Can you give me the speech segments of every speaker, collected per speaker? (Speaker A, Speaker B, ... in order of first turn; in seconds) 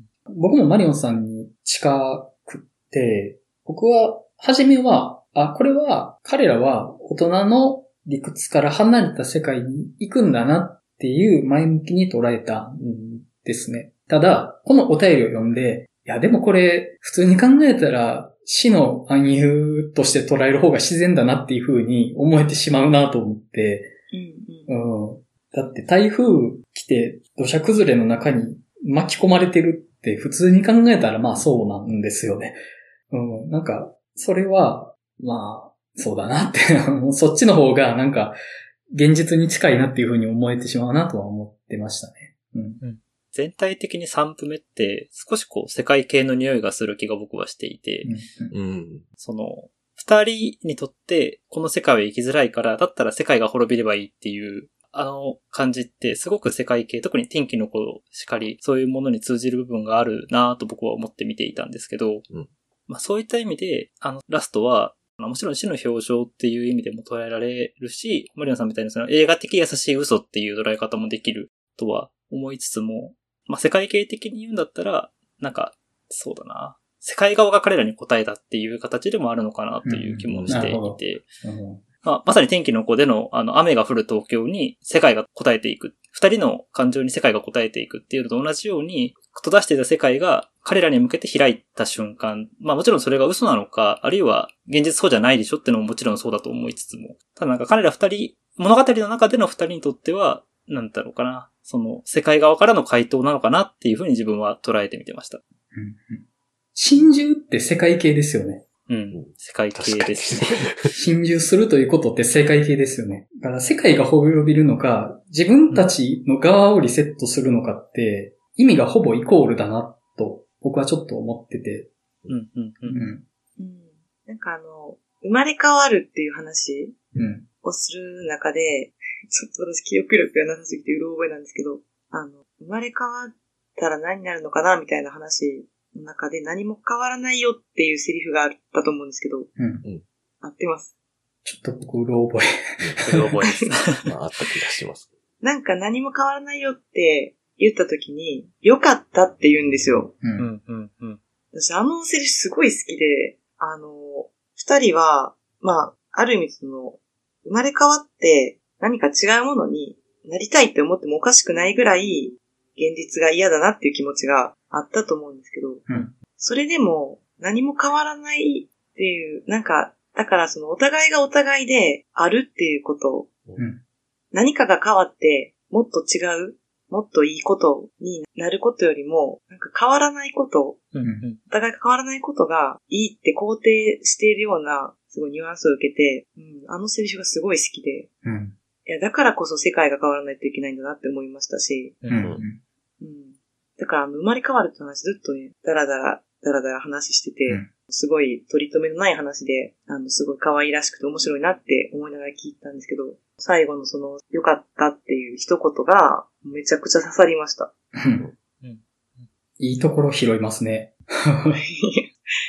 Speaker A: 0.3-23.9, 24.7-38.4, 38.9-42.8, 48.0-48.5, 79.8-81.8, 105.7-106.2, 106.7-108.6, 110.9-121.9, 122.9-123.2, 127.1-127.5, 139.6-139.8, 141.4-143.3, 150.2-150.5, 165.9-166.1, 181.0-181.3, 188.2-188.5, 192.1-192.6, 207.9-208.2, 209.6-211.6
Speaker B: 24.1-24.7, 123.6-127.0, 127.6-139.5, 140.4-140.9, 145.4-150.1, 151.5-173.3, 174.3-180.9, 181.5-188.1, 188.9-192.0, 193.0-207.7, 211.7-212.1
Speaker C: 42.8-48.1, 49.2-62.2, 62.9-81.3, 82.0-105.4, 108.9-110.6, 122.3-123.0, 143.0-144.0, 150.4-151.2, 180.9-181.4, 192.0-192.4, 208.6-209.3
Speaker D: 48.5-49.0, 80.3-80.8, 109.1-110.9, 144.0-145.1, 192.2-192.4